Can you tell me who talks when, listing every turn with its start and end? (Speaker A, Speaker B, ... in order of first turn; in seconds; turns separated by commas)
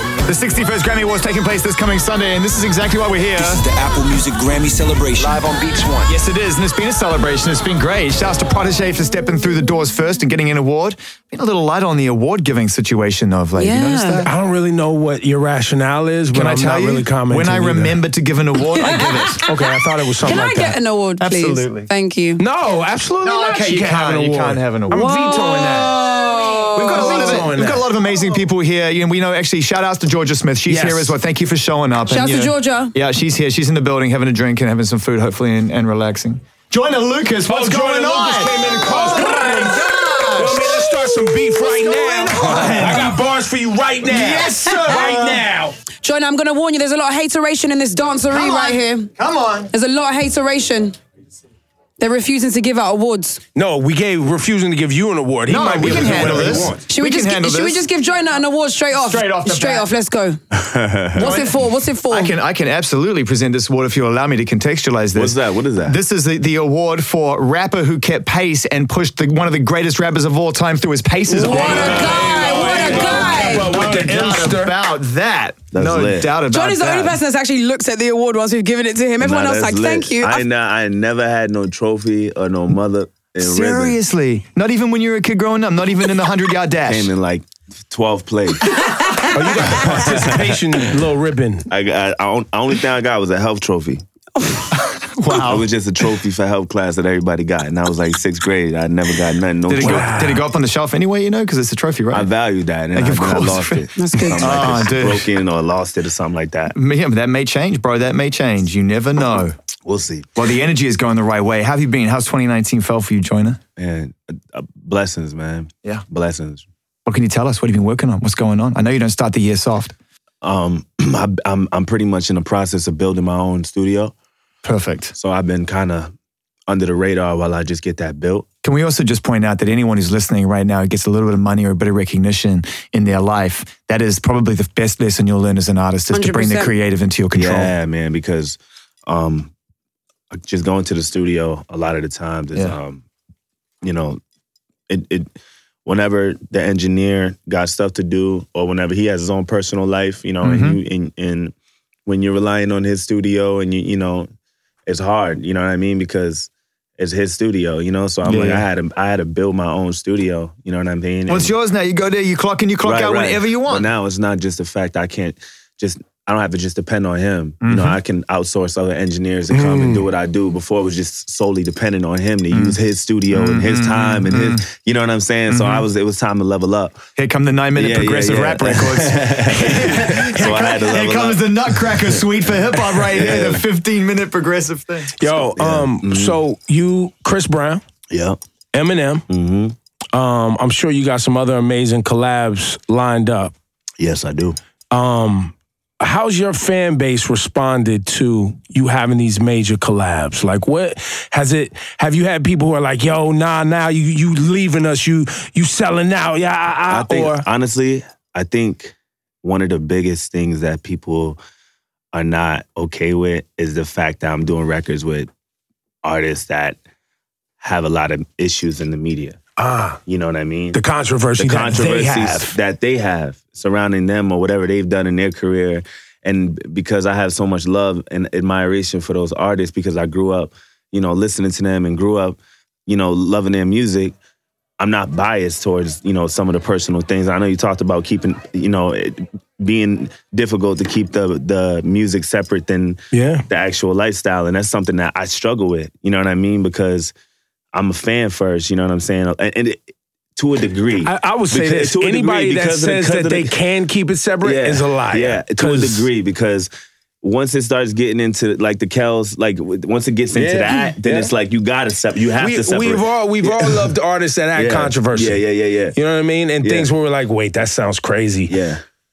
Speaker A: 0.2-3.6, Speaker B: 3.4-6.1, Speaker A: 6.0-14.3, Speaker C: 13.6-14.3, Speaker D: 14.3-18.0, Speaker A: 16.3-19.4, Speaker C: 18.8-19.6, Speaker D: 19.5-20.8, Speaker C: 20.2-22.4, Speaker A: 21.2-21.9, Speaker D: 22.4-26.1, Speaker A: 23.2-25.4, Speaker C: 24.9-27.4, Speaker A: 26.7-43.2, Speaker D: 26.8-27.9, Speaker D: 30.7-31.1, Speaker C: 32.1-32.9, Speaker D: 37.5-45.8, Speaker A: 44.0-45.5, Speaker C: 44.9-45.2, Speaker C: 46.0-49.1, Speaker A: 48.3-49.7, Speaker C: 49.7-51.0, Speaker C: 52.0-53.4, Speaker D: 53.5-56.9, Speaker A: 55.5-57.8, Speaker C: 56.9-60.4, Speaker A: 59.0-59.9, Speaker E: 60.5-61.3, Speaker C: 61.2-62.3, Speaker A: 61.2-61.6, Speaker A: 62.1-77.2, Speaker E: 65.1-66.0, Speaker D: 71.3-74.7, Speaker C: 71.4-73.8, Speaker E: 71.7-72.9, Speaker E: 75.7-76.4, Speaker C: 76.5-80.4, Speaker E: 79.2-84.0, Speaker A: 83.4-87.1, Speaker E: 86.8-88.8, Speaker D: 89.3-91.7, Speaker E: 90.1-90.6, Speaker E: 91.7-94.0, Speaker C: 94.4-94.7, Speaker A: 94.9-95.7, Speaker E: 95.3-100.2, Speaker A: 99.7-102.3, Speaker D: 99.8-100.4, Speaker E: 102.1-106.8, Speaker A: 102.9-105.3, Speaker C: 104.0-104.6, Speaker A: 106.7-109.6, Speaker E: 109.8-110.3, Speaker A: 110.4-113.6, Speaker E: 113.8-116.7, Speaker A: 117.1-119.9, Speaker E: 120.4-124.1, Speaker A: 124.6-125.1, Speaker E: 125.2-126.1, Speaker E: 126.7-128.5, Speaker A: 128.6-137.7, Speaker C: 136.1-136.7, Speaker E: 137.3-139.5, Speaker E: 140.3-143.0, Speaker E: 143.8-144.2, Speaker E: 144.9-145.3, Speaker E: 145.8-151.5, Speaker A: 150.4-150.8, Speaker E: 152.1-154.3, Speaker E: 154.9-161.5, Speaker A: 158.2-158.7, Speaker A: 161.3-163.9, Speaker E: 162.8-177.0, Speaker A: 167.6-168.0, Speaker D: 169.5-170.1, Speaker A: 172.5-172.8, Speaker A: 173.3-174.6, Speaker A: 175.5-175.9, Speaker A: 177.2-185.1, Speaker E: 177.8-182.2, Speaker E: 182.9-183.7, Speaker D: 185.2-187.8, Speaker E: 185.3-186.4, Speaker E: 188.1-188.4, Speaker D: 188.7-189.2, Speaker E: 189.3-189.8, Speaker D: 190.1-193.5, Speaker E: 194.0-194.6, Speaker D: 194.9-207.5, Speaker E: 206.9-211.4, Speaker E: 212.1-215.3, Speaker E: 216.0-216.8, Speaker E: 217.6-219.4, Speaker D: 219.6-220.0, Speaker E: 220.1-220.8, Speaker D: 220.7-222.6, Speaker E: 221.4-234.2, Speaker E: 234.8-247.1, Speaker D: 243.1-243.4, Speaker E: 247.7-253.5, Speaker D: 251.0-256.1, Speaker E: 254.4-256.7, Speaker E: 257.2-263.9, Speaker D: 260.3-261.3, Speaker D: 262.4-265.4, Speaker E: 264.5-266.0, Speaker D: 265.9-268.6, Speaker E: 266.6-266.9, Speaker E: 268.5-268.8